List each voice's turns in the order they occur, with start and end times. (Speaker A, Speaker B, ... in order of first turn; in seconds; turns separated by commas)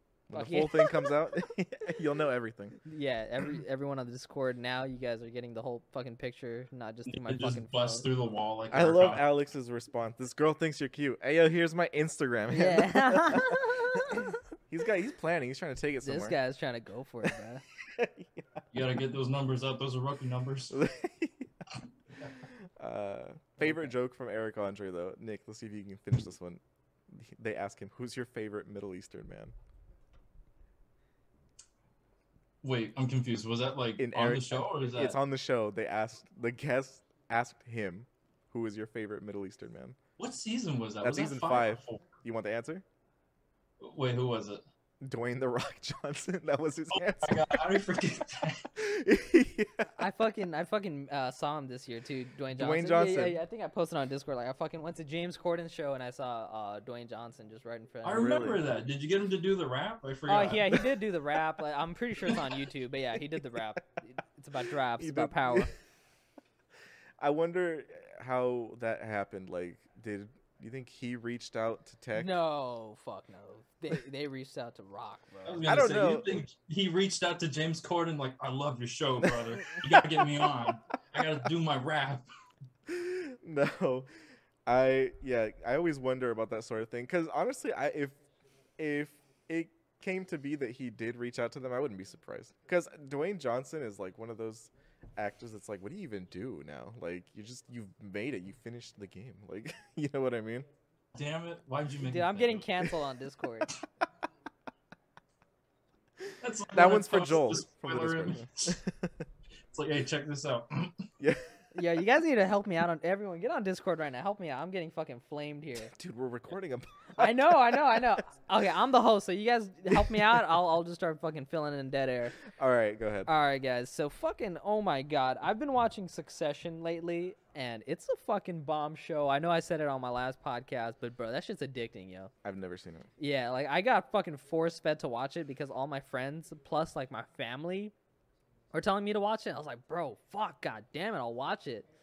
Speaker A: 0.3-2.8, Speaker B: 0.3-1.1, Speaker B: 2.8-8.1, Speaker C: 7.1-9.3, Speaker A: 8.7-16.4, Speaker B: 12.5-14.3, Speaker B: 16.0-17.6, Speaker A: 17.9-18.4, Speaker C: 18.7-20.8, Speaker A: 20.7-21.5, Speaker A: 22.8-29.5, Speaker C: 32.6-35.2, Speaker A: 34.0-40.0, Speaker C: 40.2-42.0, Speaker A: 41.0-42.8, Speaker C: 43.8-44.6, Speaker A: 45.0-47.6, Speaker C: 46.9-48.6, Speaker A: 48.8-49.9, Speaker B: 50.0-58.3, Speaker A: 52.5-53.4, Speaker C: 58.0-60.8, Speaker A: 58.1-58.6, Speaker B: 60.3-65.7, Speaker A: 65.0-65.7, Speaker A: 67.2-72.3, Speaker B: 72.1-75.8, Speaker C: 75.4-82.2, Speaker A: 75.6-76.4, Speaker A: 79.2-80.6, Speaker A: 82.9-84.1, Speaker A: 84.7-88.2, Speaker A: 88.8-100.7, Speaker C: 101.1-102.7, Speaker B: 102.0-103.7, Speaker C: 106.4-108.8, Speaker A: 106.7-109.2, Speaker C: 109.7-111.0, Speaker B: 111.7-115.9, Speaker A: 115.9-118.2, Speaker B: 117.2-122.4, Speaker A: 119.9-120.4, Speaker A: 122.5-123.3, Speaker B: 123.2-132.3, Speaker A: 132.4-133.1, Speaker B: 133.2-137.9, Speaker B: 138.7-141.8